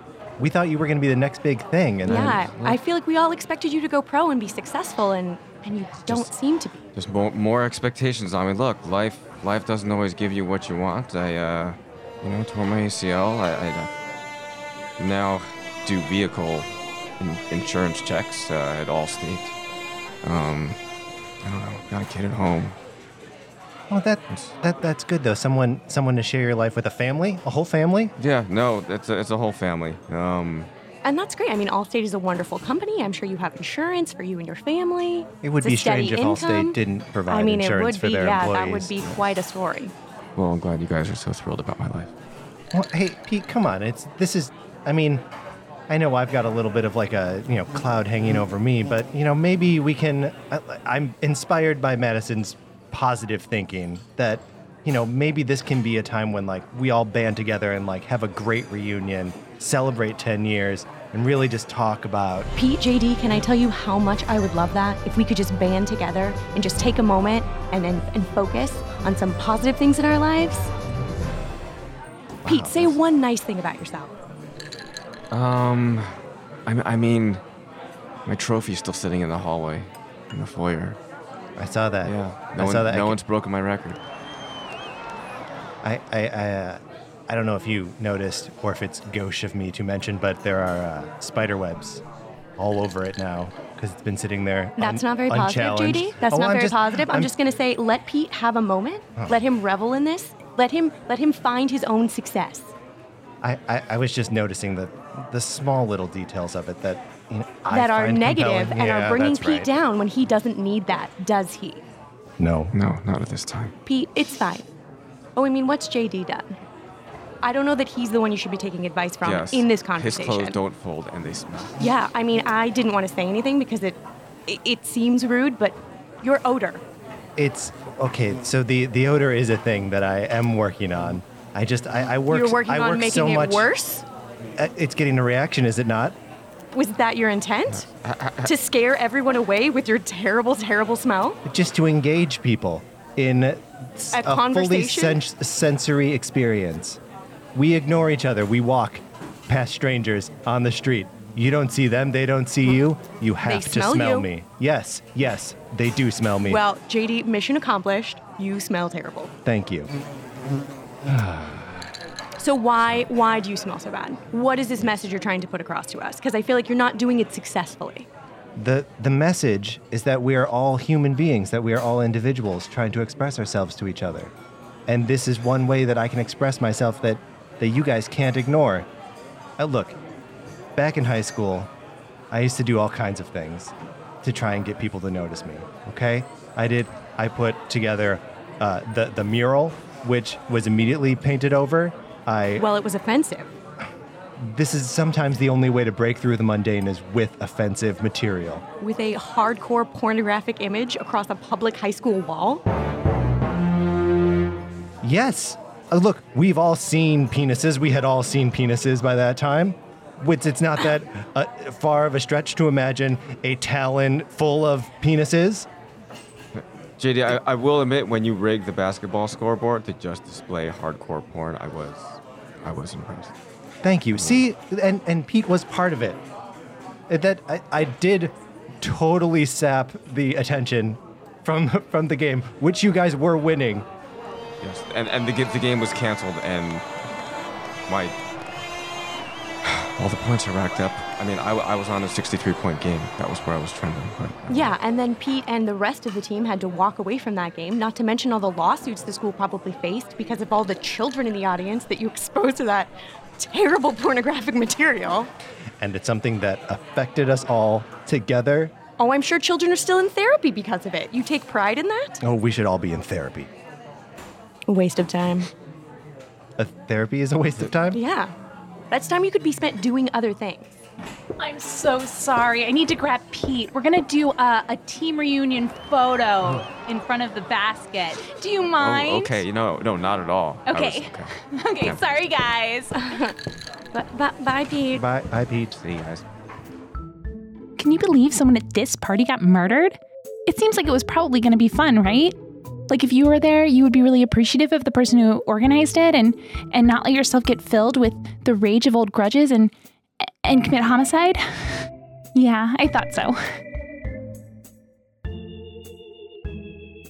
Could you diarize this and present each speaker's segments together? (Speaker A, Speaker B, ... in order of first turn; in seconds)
Speaker A: 0.4-2.4, 23.9-28.1, 35.4-38.9, 42.7-45.2, 45.9-62.5, 72.4-73.0, 81.6-83.2, 85.8-92.0, 92.6-97.3, 103.4-109.7, 112.4-112.7, 127.4-133.7, 134.6-136.1, 141.5-147.0, 147.5-156.6, 159.4-159.9, 161.1-161.8, 168.6-174.3, 174.9-178.9, 179.6-180.0, 180.8-181.7, 182.3-192.7, 194.4-198.6, 205.0-215.7, 223.8-226.2, 227.1-233.9, 255.8-258.7, 262.2-263.5, 266.6-268.0, 284.9-285.7
Speaker B: 2.0-2.8, 6.0-6.3, 7.0-13.9, 15.0-16.7, 17.2-19.5, 20.2-20.8, 21.4-22.8, 24.3-24.5, 28.2-30.7, 40.4-42.1, 75.3-76.1, 76.7-77.4, 78.2-81.0, 82.0-84.0, 112.7-113.7, 119.2-121.8, 137.7-138.5, 216.5-223.3, 224.1-224.4, 234.6-236.8, 237.9-238.2, 239.6-244.7, 278.8-282.0, 285.7-286.2
Speaker C: 2.1-6.8, 31.0-39.9, 62.5-70.7, 72.5-74.1, 94.8-102.7, 107.7-111.8, 113.9-114.7, 115.3-116.5, 117.4-120.6, 121.8-126.8, 132.3-134.0, 136.7-137.9, 138.4-141.4, 144.1-145.2, 153.4-154.2, 156.4-159.3, 162.4-168.1, 192.6-193.5, 198.8-202.6, 244.5-255.3, 259.0-262.2, 264.7-265.5, 267.9-268.3, 268.9-270.7, 283.0-283.3, 283.9-285.0
Speaker D: 271.4-279.4, 280.7-283.1, 287.8-292.3, 292.9-303.4